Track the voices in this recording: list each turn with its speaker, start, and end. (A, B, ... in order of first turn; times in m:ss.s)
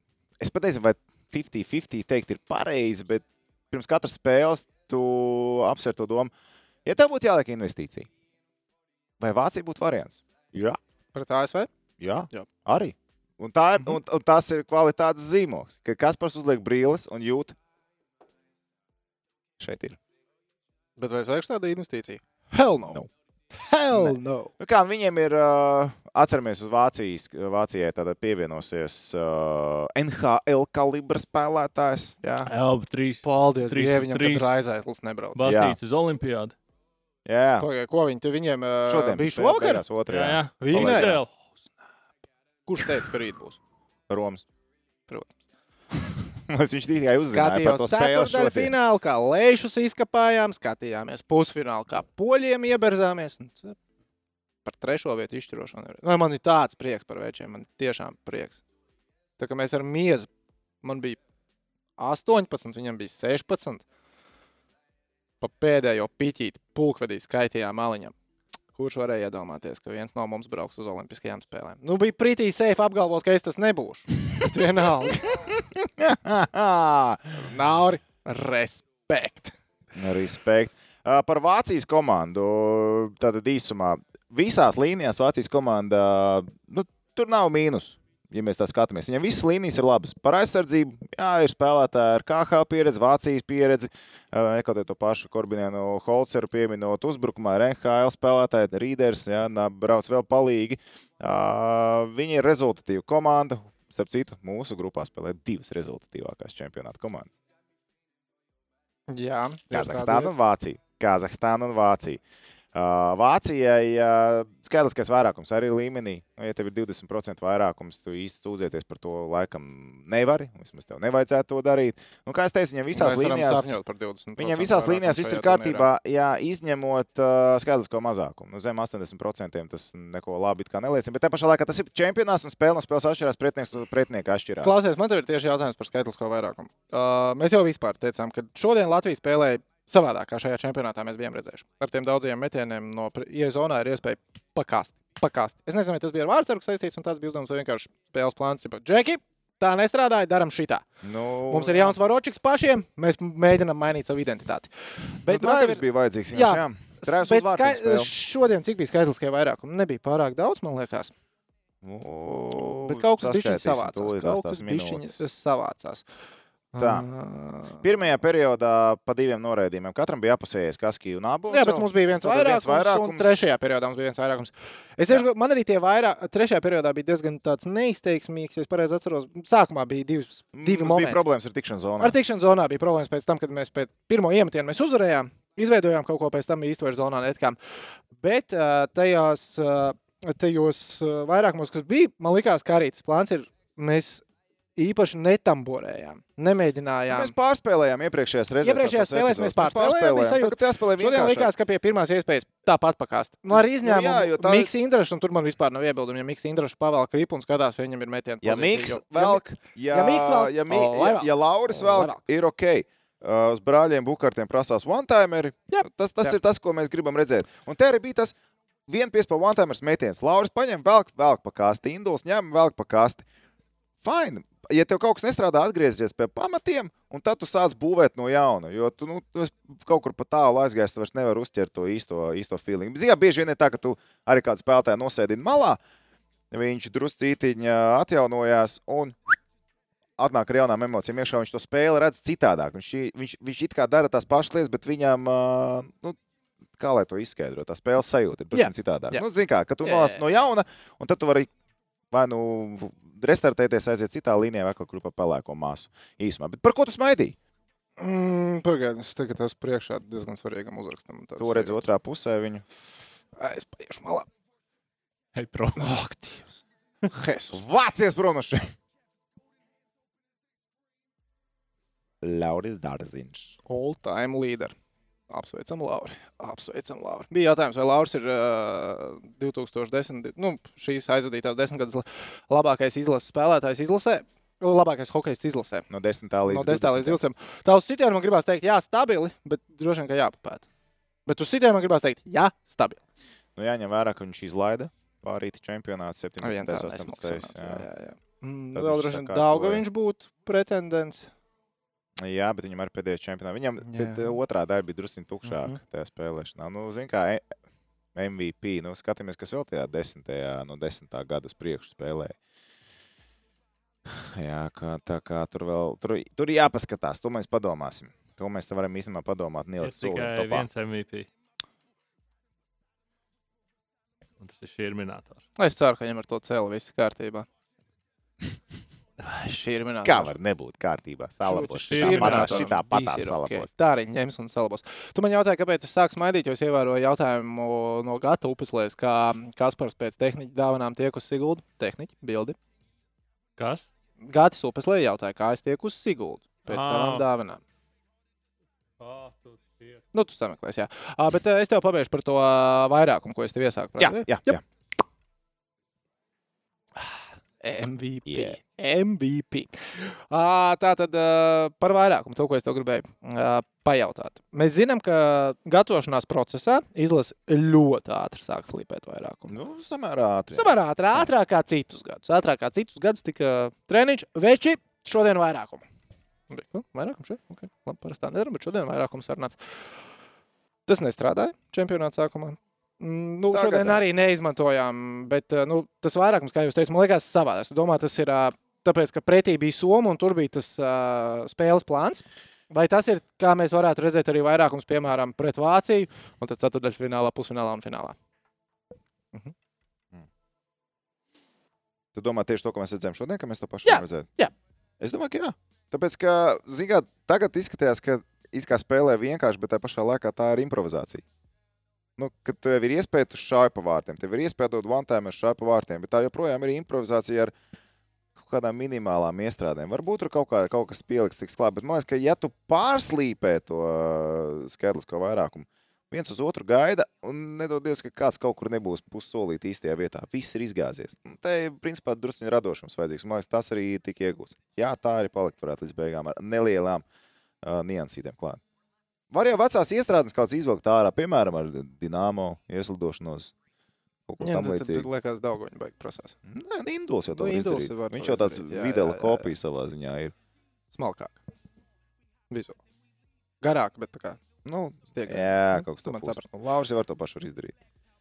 0:00.4-0:06.3 A
0:06.8-0:08.1 A
0:09.2-0:10.8 A
0:11.1-0:11.7 B
0:12.0-0:17.6 A
0:19.6-0:20.0 A
0:21.0-0:23.0 B
0:23.6-0:24.5 B
0:23.9-0:32.5 A
0:32.4-0:34.5 C
0:33.2-0:35.4 B
0:35.4-0:36.6 C
0:35.4-0:35.8 A
0:37.3-0:37.7 A
0:37.6-0:39.8 B
0:38.8-0:41.2 A
0:40.1-0:41.3 C
0:40.6-0:41.2 B
0:42.7-0:43.6 B
0:44.1-0:44.4 A
0:45.1-0:45.3 B
0:46.5-0:48.8 A
0:47.3-0:53.8 B
0:54.6-0:58.6 B
0:59.4-1:00.3 B
1:00.8-1:01.2 B
1:02.0-1:03.8 B
1:05.4-1:08.1 B
1:08.8-1:15.3 B
1:15.5-1:17.4 A
1:17.4-1:19.5 B
1:20.0-1:47.3 A
1:49.1-1:50.3 B
1:49.7-1:52.2 A
1:52.7-2:03.8 A
2:02.9-2:05.9 B
2:04.4-2:14.8 A
2:14.6-2:30.8 B
2:31.0-2:32.0 A
2:31.5-2:41.1 B
2:35.3-2:38.1 A
2:41.8-2:45.2 A
2:42.9-2:46.0 B
2:46.7-2:47.8 B
2:46.8-2:47.1 A
2:47.8-2:53.4 A
2:51.5-3:01.2 B
3:00.5-3:02.2 A
3:02.0-3:07.6 B
3:08.2-3:14.2 B
3:14.8-3:17.3 B
3:17.1-3:21.5 A
3:18.6-3:32.2 B
3:23.5-3:24.7 A
3:28.4-3:38.4 A
3:35.7-3:36.4 B
3:38.9-3:43.2 A
3:44.0-3:55.8 A
3:56.5-3:59.4 A
4:00.2-4:06.2 A
4:06.8-4:11.5 A
4:08.5-4:09.2 B
4:09.8-4:10.2 B
4:12.1-4:17.4 A
4:18.0-4:21.8 B
4:21.4-4:22.6 A
4:23.4-4:24.3 B
4:25.4-4:25.9 C
4:25.8-4:26.6 B
4:27.1-4:27.6 B
4:27.5-4:28.7 A
4:32.2-4:33.6 A
4:33.7-4:34.7 B
4:35.3-4:45.9 B
4:45.9-4:47.2 A
4:46.5-4:50.6 B
4:51.3-4:53.0 B
4:53.6-4:57.9 A
4:56.4-5:01.3 B
4:58.8-4:59.8 A
5:02.2-5:07.4 A
5:03.8-5:04.4 B
5:05.5-5:05.8 B
5:08.2-5:12.4 A
5:14.1-5:20.7 A
5:19.8-5:21.3 C
5:24.4-5:25.4 C
5:25.6-5:27.5 B
5:29.2-5:30.3 B
5:30.0-5:33.7 A
5:31.4-5:42.6 B
5:31.9-5:32.7 C
5:43.6-5:43.9 C
5:44.2-5:47.6 B
5:46.7-5:47.3 C
5:49.0-5:50.0 C
5:50.1-5:54.6 B
5:54.0-5:54.6 A
5:57.6-6:09.5 B
5:58.3-5:58.6 A
6:09.5-6:11.3 A
6:10.5-6:15.8 B
6:16.5-6:19.7 B
6:20.9-6:38.2 B
6:23.5-6:24.0 A
6:42.1-6:44.3 A
6:43.8-6:44.5 B
6:45.0-6:51.2 A
6:52.2-6:57.5 A
6:58.4-7:17.0 A
7:17.6-7:18.6 A
7:19.3-7:23.5 A
7:24.3-7:25.1 A
7:24.4-7:26.4 B
7:26.5-7:30.3 A
7:27.4-7:29.5 B
7:30.9-7:31.4 B
7:32.5-7:32.8 B
7:33.6-7:34.4 B
7:34.6-7:37.8 A
7:35.2-7:36.4 B